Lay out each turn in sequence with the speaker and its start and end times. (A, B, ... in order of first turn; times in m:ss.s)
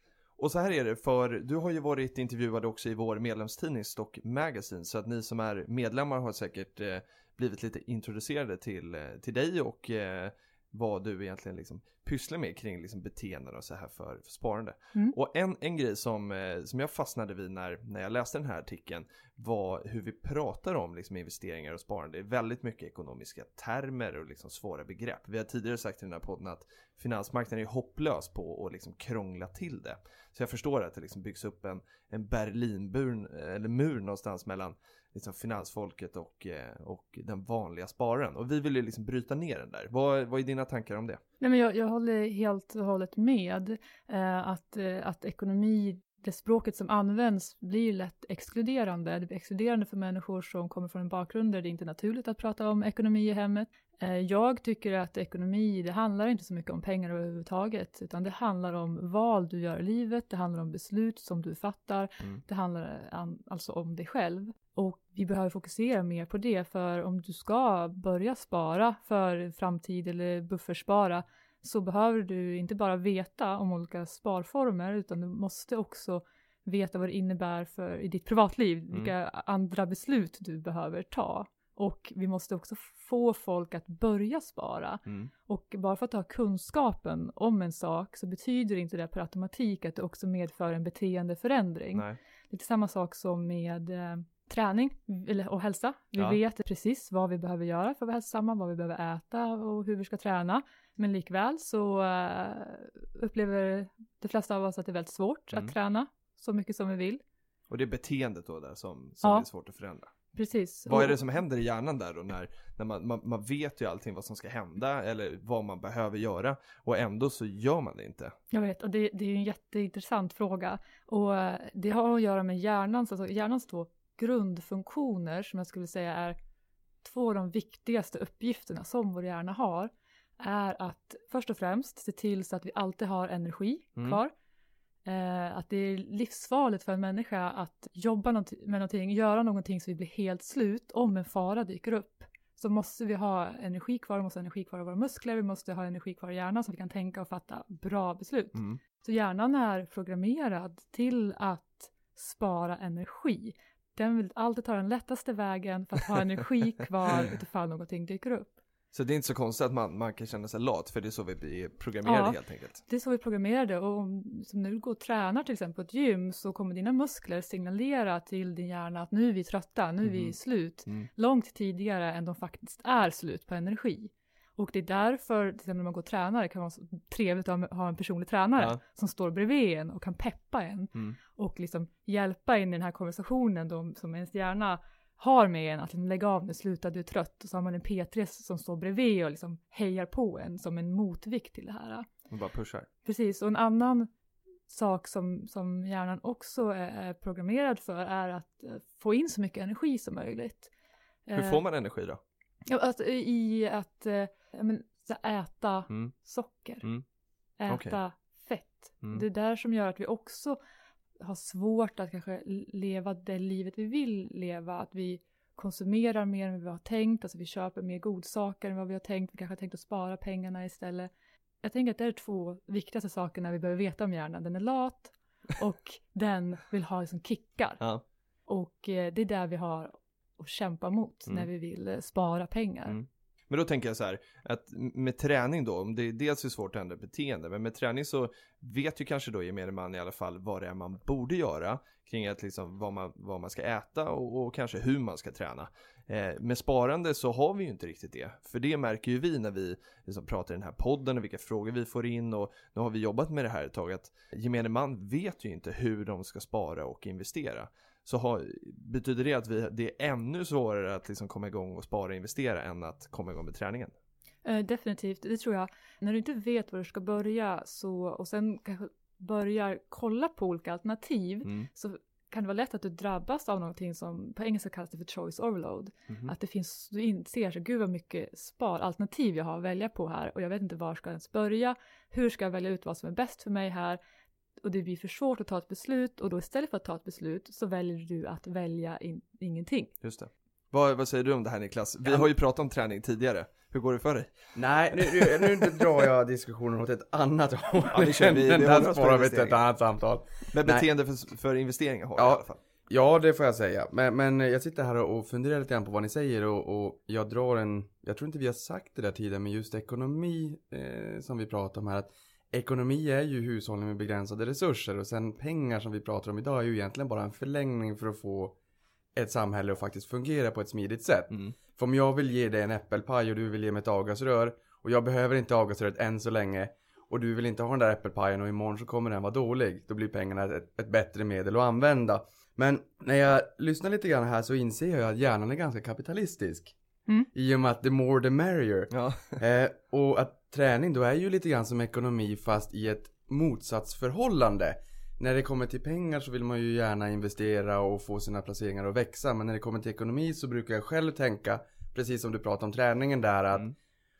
0:00.4-0:41.2 A
0:41.4-1:47.2 B
1:47.7-1:50.1 A
1:50.3-1:51.2 B
1:50.9-1:58.4 A
1:58.5-2:06.4 B
2:07.0-2:14.3 B
2:15.0-2:38.5 B
2:38.9-2:42.8 A
2:42.0-3:12.1 B
2:50.0-2:50.3 A
3:12.3-3:12.9 A
3:13.0-3:14.1 B
3:14.7-3:20.7 B
3:21.3-3:21.6 B
3:21.3-3:22.2 A
3:22.7-3:26.8 B
3:27.6-3:30.6 B
3:27.7-3:28.0 A
3:31.2-3:41.1 B
3:41.6-3:47.8 B
3:48.5-3:53.0 B
3:52.9-4:23.9 A
4:24.4-4:44.0 B
4:44.6-4:49.9 B
4:50.0-4:54.3 A
4:54.6-5:00.8 C
4:55.0-4:55.7 A
4:57.9-4:59.6 A
5:00.5-5:02.6 A
5:02.2-5:18.5 C
5:19.1-5:36.7 C
5:37.3-5:53.7 C
5:38.9-5:39.4 A